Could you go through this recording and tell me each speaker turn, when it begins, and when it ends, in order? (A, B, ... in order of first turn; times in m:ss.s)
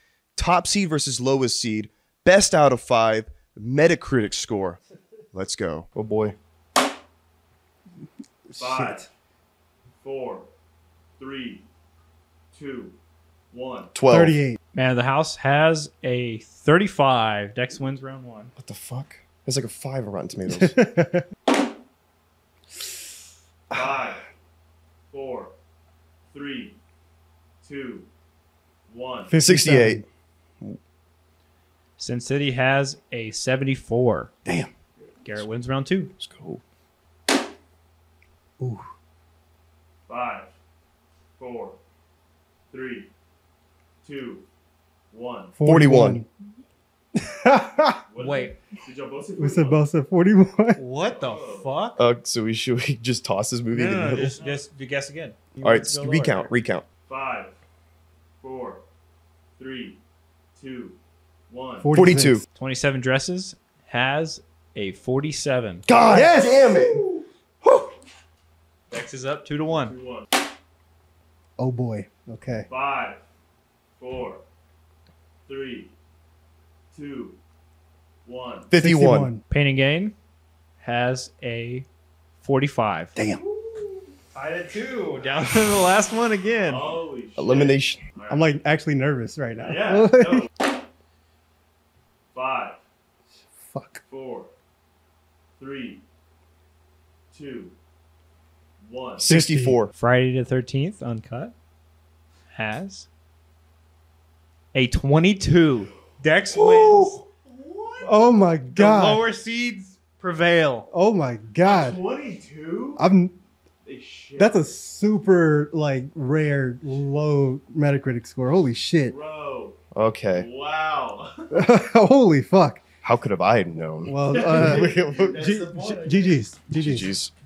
0:00.4-0:04.8 A
0:05.3-0:06.3 A
0:08.6-0:09.1 B
0:08.6-0:09.0 C
0:10.0-0:10.5 B
0:11.2-0:11.6 B
0:12.5-0:13.0 B
0:13.5-0:13.9 B
0:13.9-0:14.4 A
0:14.1-0:14.6 C
0:14.7-0:18.5 D
0:18.6-0:20.7 A
0:20.6-0:21.2 C
0:23.7-0:24.2 B
0:25.1-0:25.5 B
0:26.3-0:26.8 B
0:27.6-0:28.1 B
0:28.9-0:29.3 B
0:29.3-0:30.0 C
0:29.4-0:30.0 A
0:32.0-0:34.3 D
0:35.2-0:36.1 D
0:36.2-0:36.6 A
0:40.1-0:40.5 B
0:41.4-0:41.8 B
0:42.7-0:43.1 B
0:44.0-0:44.4 B
0:45.1-0:45.6 B
0:45.6-0:46.3 C
0:45.6-0:46.2 A
0:47.2-0:48.0 C
0:48.1-0:49.8 B
0:48.2-0:48.5 D
0:49.4-0:50.8 C
0:50.8-0:52.0 D
0:51.0-0:51.7 B
0:52.0-0:54.4 A
0:53.7-0:56.5 D
0:54.4-0:54.6 B
0:55.6-0:56.8 A
0:57.0-0:57.5 B
0:58.4-0:58.8 B
0:59.6-1:00.0 B
1:00.6-1:01.0 B
1:01.5-1:01.9 B
1:01.8-1:02.4 C
1:01.9-1:02.4 A
1:02.5-1:05.9 D
1:05.9-1:07.0 A
1:06.0-1:07.0 C
1:07.6-1:07.9 A
1:08.9-1:09.9 D
1:09.7-1:10.3 B
1:11.6-1:12.7 C
1:12.7-1:13.2 B
1:14.0-1:14.4 B
1:15.5-1:15.9 B
1:16.9-1:17.4 B
1:18.2-1:18.7 B
1:18.7-1:19.3 A
1:18.7-1:19.4 C
1:19.5-1:20.1 D
1:20.8-1:21.8 D
1:22.4-1:23.2 D
1:23.2-1:23.4 C
1:24.3-1:26.9 D
1:26.6-1:28.5 B
1:27.4-1:28.0 A
1:28.3-1:30.5 C
1:29.6-1:30.5 B
1:32.3-1:32.8 B
1:33.5-1:34.0 C
1:34.0-1:34.5 B
1:35.6-1:36.0 B
1:37.3-1:37.7 B
1:38.8-1:39.3 B
1:39.2-1:39.9 A
1:39.3-1:39.8 C
1:39.9-1:41.5 D
1:42.5-1:43.1 D
1:44.7-1:47.2 D
1:46.5-1:47.2 C
1:47.4-1:48.1 B
1:48.0-1:49.2 C
1:48.7-1:50.9 D
1:50.9-1:52.0 C
1:51.6-1:53.0 B
1:53.0-1:53.4 C
1:53.8-1:54.6 B
1:54.4-1:59.2 C
1:59.0-1:59.8 B
1:59.9-2:00.5 A
2:00.3-2:01.5 B
2:01.5-2:02.8 C
2:03.0-2:05.4 A
2:04.0-2:07.1 C
2:04.3-2:06.4 B
2:06.8-2:07.3 A